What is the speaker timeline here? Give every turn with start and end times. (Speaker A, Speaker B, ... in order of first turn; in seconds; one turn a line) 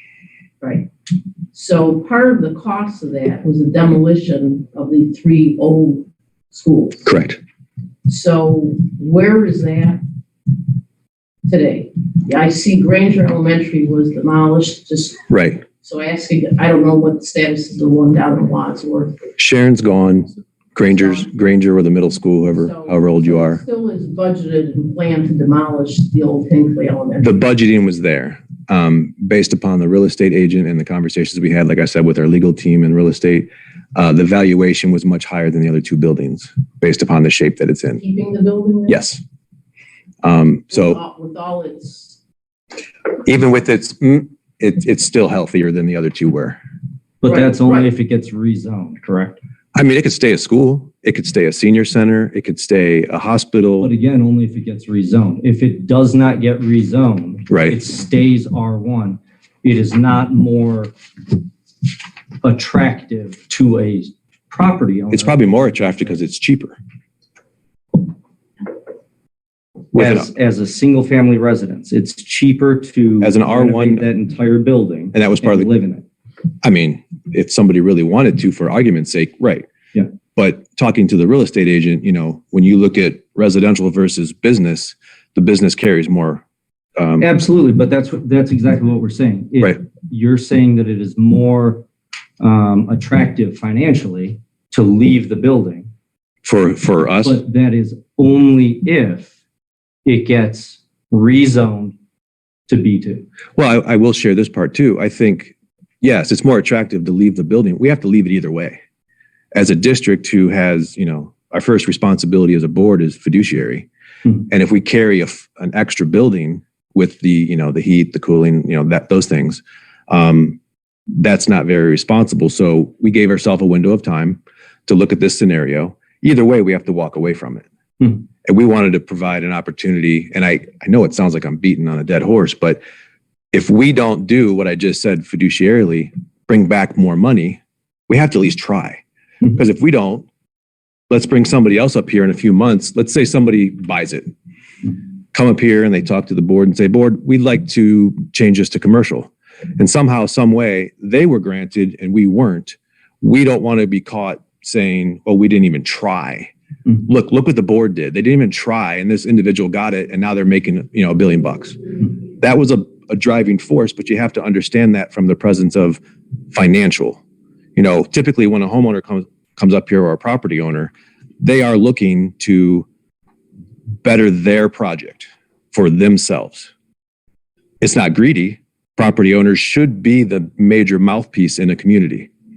Speaker A: 0.6-0.9
Speaker A: 1.5-7.0
Speaker B: 7.0-7.4
Speaker A: 8.1-10.0
Speaker A: 11.5-15.2
Speaker B: 15.3-15.6
Speaker A: 15.8-19.2
Speaker B: 19.4-23.6
Speaker A: 20.9-21.3
Speaker A: 22.6-27.3
Speaker B: 27.2-38.0
Speaker A: 38.0-39.0
Speaker B: 38.9-39.2
Speaker B: 40.2-41.0
Speaker A: 40.7-42.2
Speaker B: 43.2-46.6
Speaker C: 47.2-49.4
Speaker A: 47.3-47.9
Speaker B: 49.7-53.9
Speaker C: 53.8-60.9
Speaker B: 57.5-57.8
Speaker C: 62.4-66.2
Speaker B: 65.1-66.8
Speaker B: 69.9-70.3
Speaker C: 69.9-76.0
Speaker B: 73.2-74.0
Speaker B: 75.1-75.7
Speaker B: 76.6-79.7
Speaker B: 80.3-86.4
Speaker B: 87.0-87.2
Speaker C: 87.2-91.8
Speaker C: 92.4-95.9
Speaker B: 96.4-97.4
Speaker C: 97.2-99.3
Speaker C: 100.0-101.9
Speaker C: 102.7-103.2
Speaker B: 103.5-108.8
Speaker B: 109.5-113.9
Speaker B: 114.5-120.6
Speaker B: 121.2-127.7
Speaker B: 128.4-132.8
Speaker B: 133.5-140.2
Speaker B: 141.1-144.3
Speaker B: 145.3-156.5
Speaker B: 157.0-161.8
Speaker B: 162.4-166.0
Speaker B: 166.5-167.2
Speaker B: 167.8-172.9
Speaker B: 174.0-176.7
Speaker B: 177.8-182.3